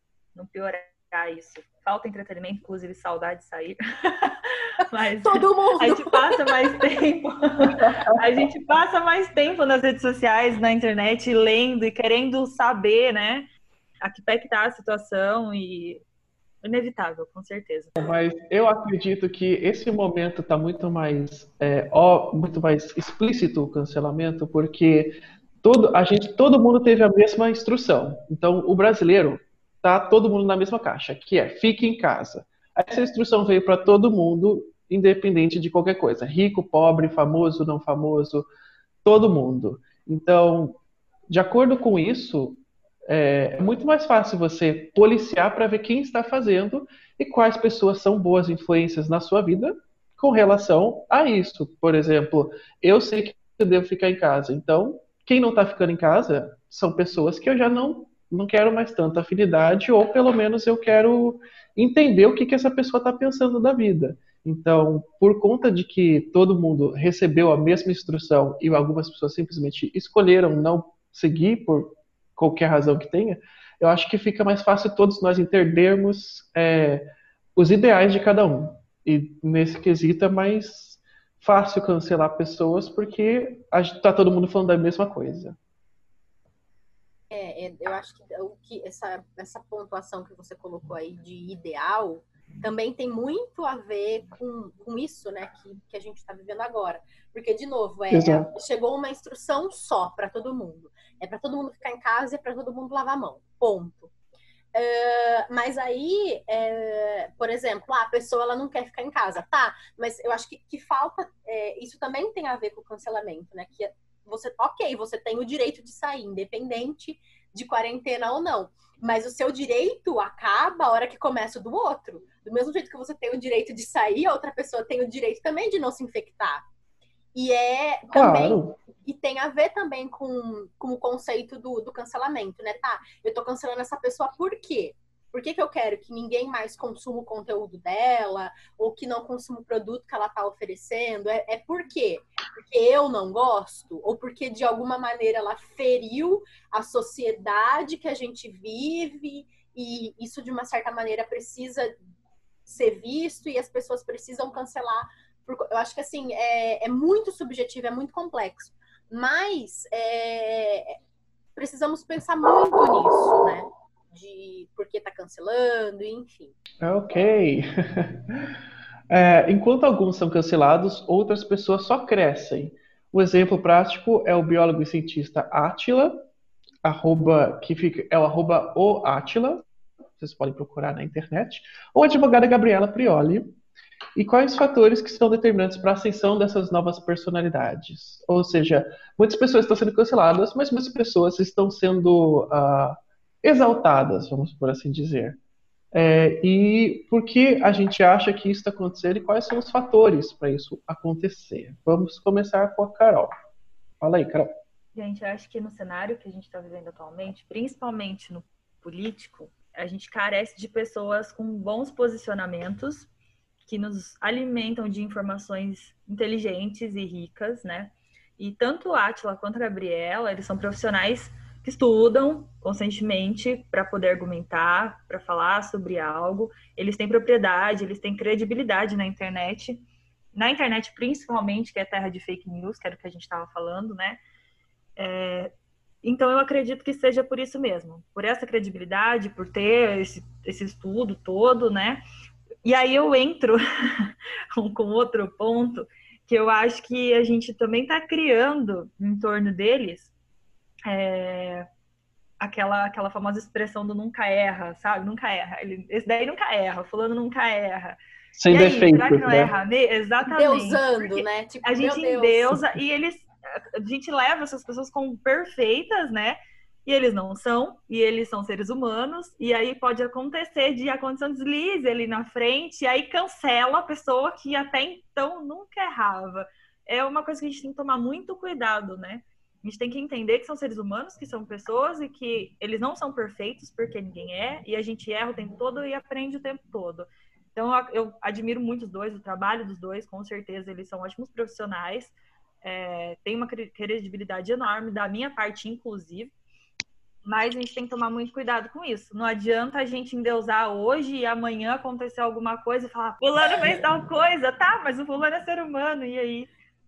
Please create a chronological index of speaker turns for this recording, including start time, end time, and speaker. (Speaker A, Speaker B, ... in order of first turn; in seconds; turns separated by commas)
Speaker A: 0.3-13.5, Speaker B: 5.2-6.5, Speaker C: 7.8-8.2, Speaker A: 14.0-16.0, Speaker A: 16.6-18.0, Speaker C: 18.0-38.5, Speaker C: 39.0-85.6, Speaker B: 87.3-104.1, Speaker C: 98.1-98.5, Speaker B: 104.7-126.7, Speaker B: 127.3-151.9, Speaker C: 128.1-128.8, Speaker B: 152.7-161.0, Speaker B: 161.6-166.6, Speaker C: 166.8-168.6, Speaker C: 169.1-176.2, Speaker C: 176.8-179.6, Speaker C: 180.2-183.5, Speaker C: 184.2-195.4, Speaker C: 195.9-203.3, Speaker C: 204.0-204.5, Speaker A: 204.9-213.1, Speaker A: 213.7-234.2, Speaker A: 235.0-235.5, Speaker A: 236.0-242.0, Speaker A: 242.6-250.1, Speaker A: 250.9-251.7, Speaker A: 252.4-258.0, Speaker C: 258.4-259.5, Speaker A: 258.5-296.3, Speaker B: 260.3-262.6, Speaker A: 297.2-306.5